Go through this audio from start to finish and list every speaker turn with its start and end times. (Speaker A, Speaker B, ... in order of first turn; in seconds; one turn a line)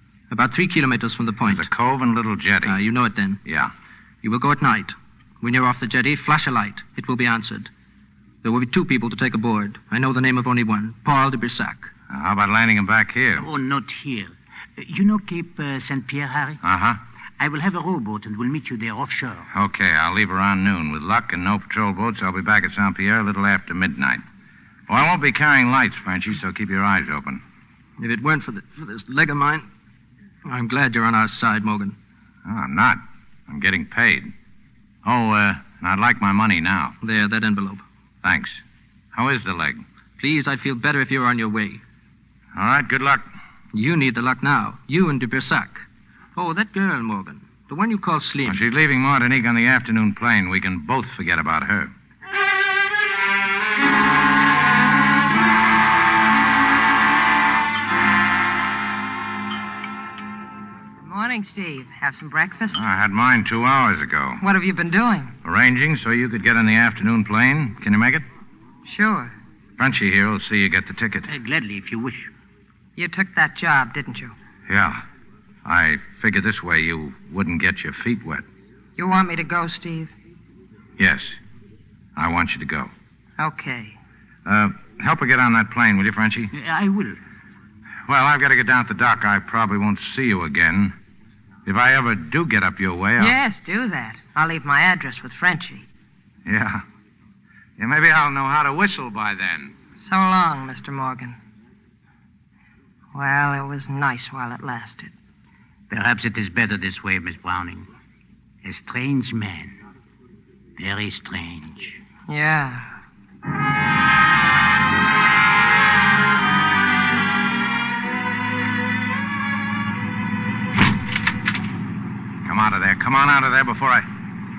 Speaker A: 0.3-1.7
Speaker B: 1.4-2.8
Speaker A: 2.6-3.4
Speaker B: 3.4-3.7
Speaker A: 4.2-7.7
Speaker A: 8.4-11.9
Speaker B: 12.1-13.5
Speaker C: 13.4-16.6
Speaker B: 16.6-17.0
Speaker C: 17.4-19.5
Speaker B: 19.5-24.2
Speaker B: 24.9-27.4
Speaker A: 28.0-29.7
Speaker A: 30.4-32.0
Speaker B: 32.4-34.3
Speaker B: 35.0-37.0
Speaker A: 37.0-37.8
Speaker B: 38.2-38.6
Speaker B: 39.1-39.8
Speaker A: 40.2-41.8
Speaker B: 42.5-43.3
Speaker A: 43.7-45.8
Speaker A: 46.4-48.6
Speaker B: 48.4-51.9
Speaker D: 61.0-62.8
Speaker B: 62.7-64.4
Speaker D: 64.4-65.3
Speaker B: 65.4-68.2
Speaker D: 68.8-69.3
Speaker B: 69.8-71.3
Speaker C: 71.3-72.3
Speaker D: 73.0-74.3
Speaker B: 74.7-75.0
Speaker B: 75.6-78.5
Speaker D: 79.0-80.1
Speaker B: 81.0-81.4
Speaker B: 82.2-82.9
Speaker D: 83.4-84.0
Speaker B: 84.4-86.5
Speaker C: 86.5-87.2
Speaker B: 88.1-90.9
Speaker B: 91.6-93.4
Speaker D: 93.2-95.9
Speaker B: 96.4-96.8
Speaker B: 97.8-99.7
Speaker D: 100.0-101.4
Speaker D: 103.1-105.1
Speaker C: 105.9-107.9
Speaker C: 108.6-109.8
Speaker C: 110.8-112.0
Speaker D: 112.3-112.9
Speaker B: 122.4-124.1